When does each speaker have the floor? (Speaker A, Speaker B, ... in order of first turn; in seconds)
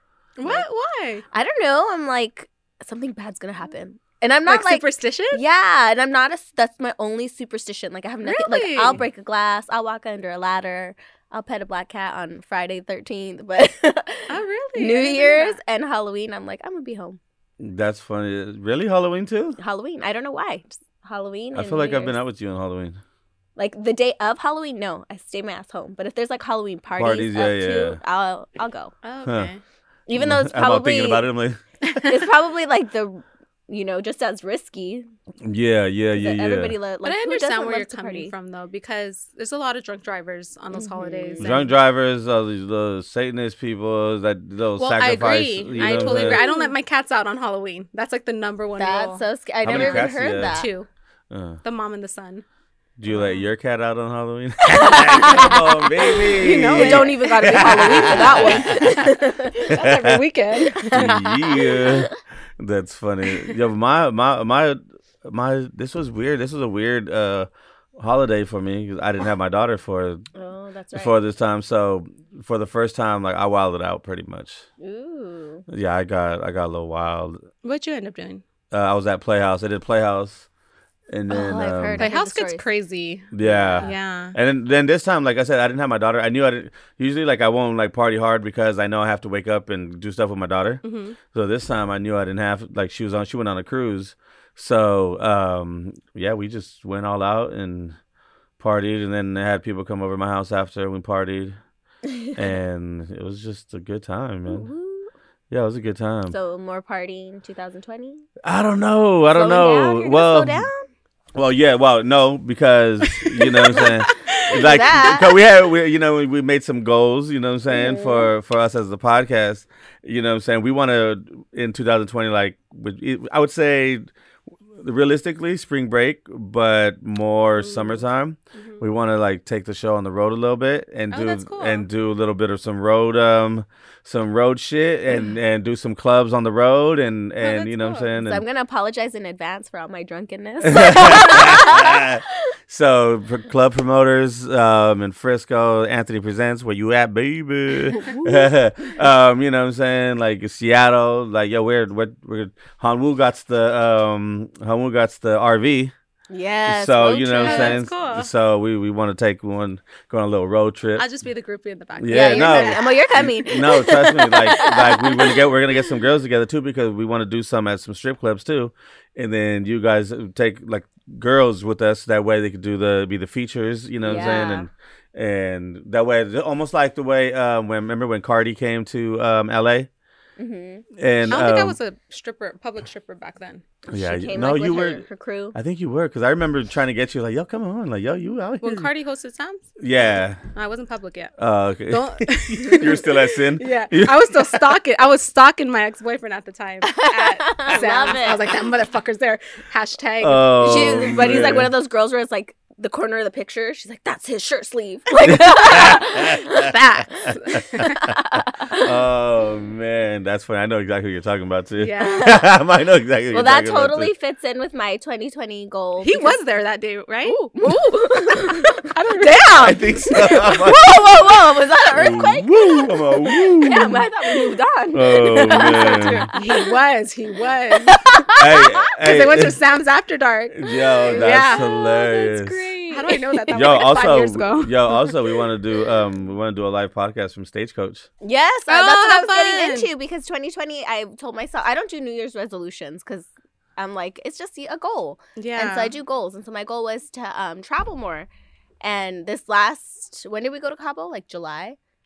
Speaker A: 0.4-1.2, 4.5-5.4, 8.2-9.0, 14.3-15.6, 29.0-29.6, 31.8-32.2, 37.0-41.8, 44.8-50.9, 51.6-52.5, 53.1-53.5, 56.3-61.1, 77.6-78.4, 82.0-84.4, 90.8-91.2, 113.0-114.6, 127.5-128.0, 128.6-128.8, 131.1-131.9, 137.4-138.1, 157.4-158.3, 161.0-162.9, 174.1-174.4, 181.3-183.6, 188.6-189.7, 190.5-191.3, 191.9-201.5, 206.5-208.0, 211.8-212.4, 216.0-217.5, 218.8-219.8, 225.5-228.3, 228.8-234.8, 238.7-239.9, 245.4-245.9
Speaker B: 1.3-17.2, 19.6-22.1, 23.6-28.9, 30.1-31.2, 32.0-35.1, 36.1-38.3, 40.7-41.5, 45.9-46.7, 48.8-50.7, 54.7-59.9, 60.5-62.1, 70.3-71.2, 74.8-75.7, 81.3-82.6, 83.4-83.9, 102.1-102.3, 104.5-105.1, 106.3-108.3, 109.3-110.9, 114.5-115.3, 117.7-118.3, 138.2-142.2, 148.1-148.5, 156.3-157.8, 162.1-165.4, 174.0-174.7, 180.4-180.8, 183.9-185.6, 196.9-198.6, 200.6-208.9, 212.0-212.4, 213.3-216.4, 217.2-226.7, 227.7-228.8, 230.7-231.8, 232.9-234.2, 238.2-248.3, 248.8-251.8
Speaker C: 17.6-19.6, 21.6-23.0, 27.0-28.0, 29.2-29.5, 30.2-31.6, 35.4-36.8, 41.4-46.4, 49.6-50.6, 51.3-51.6, 53.0-58.9, 59.7-60.2, 60.9-70.2, 71.0-74.6, 75.7-77.4, 78.7-80.5, 81.1-82.0, 83.3-98.0, 98.6-101.6, 102.4-104.7, 105.5-106.3, 108.4-110.7, 111.3-124.1, 124.8-138.4, 140.6-155.9, 156.7-161.1, 162.0-179.9, 181.0-181.8, 183.9-185.0, 185.6-188.9, 189.8-190.4, 191.4-194.8, 200.2-201.7, 205.2-206.7, 207.3-214.1, 219.6-221.0, 221.9-224.1, 224.9-226.3, 228.3-229.6, 230.6-232.8, 233.5-238.1